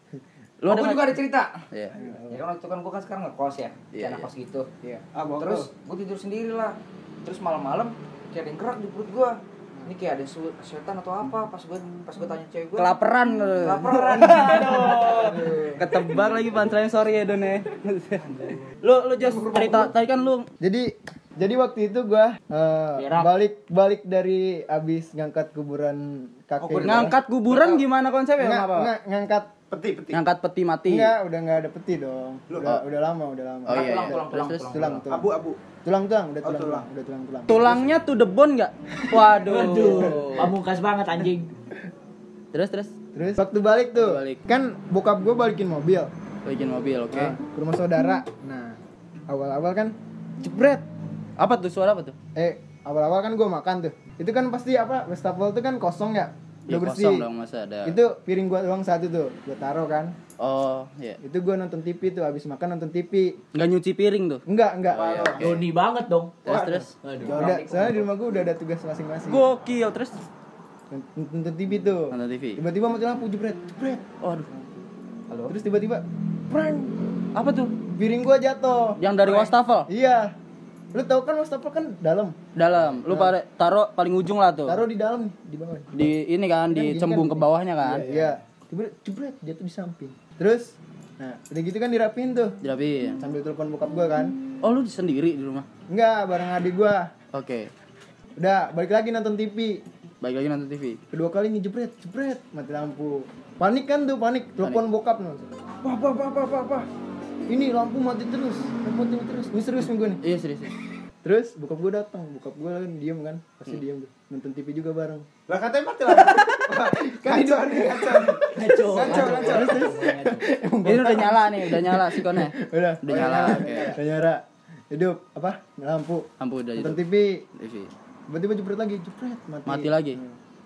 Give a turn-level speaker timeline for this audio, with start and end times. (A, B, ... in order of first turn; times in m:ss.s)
0:00.6-0:01.9 A
0:00.6-0:01.5 B
0:02.3-0:12.9 B
0:03.9-0:04.3 A
0:05.1-0:05.7 C
0:12.7-0:20.4 A
0:13.6-0:15.9 B
0:14.1-0:15.8 C
0:18.2-0:18.7 C
0:19.2-0:19.9 C
0:20.6-0:27.2 D
0:23.0-0:23.3 E
0:26.6-0:27.8 C
0:26.8-0:28.9 A
0:28.4-0:29.6 D
0:29.7-0:30.2 C
0:30.1-0:31.2 A
0:30.9-0:35.3 D
0:32.5-0:32.8 C
0:33.7-0:34.7 A
0:33.7-0:35.0 B
0:35.1-0:35.6 C
0:35.8-0:37.9 D
0:36.4-0:36.9 C
0:37.5-0:40.5 A
0:39.4-0:41.5 E
0:42.5-0:42.9 A
0:43.1-0:46.1 D
0:43.9-0:44.4 A
0:46.4-0:47.4 A
0:47.1-0:48.8 D
0:49.3-0:50.8 D
0:51.4-0:52.1 A
0:52.4-0:57.3 D
0:56.7-0:58.0 A
0:57.8-1:00.1 D
1:00.4-1:01.2 A
1:01.2-1:03.4 D
1:03.5-1:05.7 A
1:04.5-1:05.3 D
1:04.9-1:05.5 C
1:05.4-1:06.4 E
1:06.4-1:06.9 A
1:06.5-1:06.9 C
1:07.0-1:07.4 E
1:07.2-1:08.1 B
1:07.2-1:09.4 D
1:09.2-1:10.2 A
1:10.9-1:14.1 D
1:12.1-1:12.6 A
1:14.2-1:14.5 A
1:15.5-1:16.9 D
1:17.3-1:17.7 A
1:17.9-1:20.3 D
1:19.0-1:19.9 A
1:20.9-1:22.4 D
1:22.6-1:24.8 A
1:23.0-1:23.4 D
1:24.6-1:26.1 D
1:25.9-1:28.1 A
1:26.7-1:32.5 D
1:28.0-1:28.3 C
1:32.6-1:33.2 A
1:33.2-1:34.4 D
1:34.6-1:35.6 A
1:35.9-1:37.1 D
1:37.3-1:37.7 A
1:38.4-1:39.8 D
1:40.2-1:41.0 A
1:41.1-1:45.5 D
1:45.8-1:46.9 C
1:47.5-1:50.2 D
1:50.2-1:50.7 A
1:51.2-1:55.3 D
1:55.5-1:59.9 C
1:56.1-2:07.4 D
1:58.5-2:00.4 E
2:00.8-2:03.9 A
2:03.1-2:04.0 C
2:06.4-2:07.0 A
2:07.6-2:07.9 A
2:08.3-2:10.4 D
2:09.6-2:10.2 A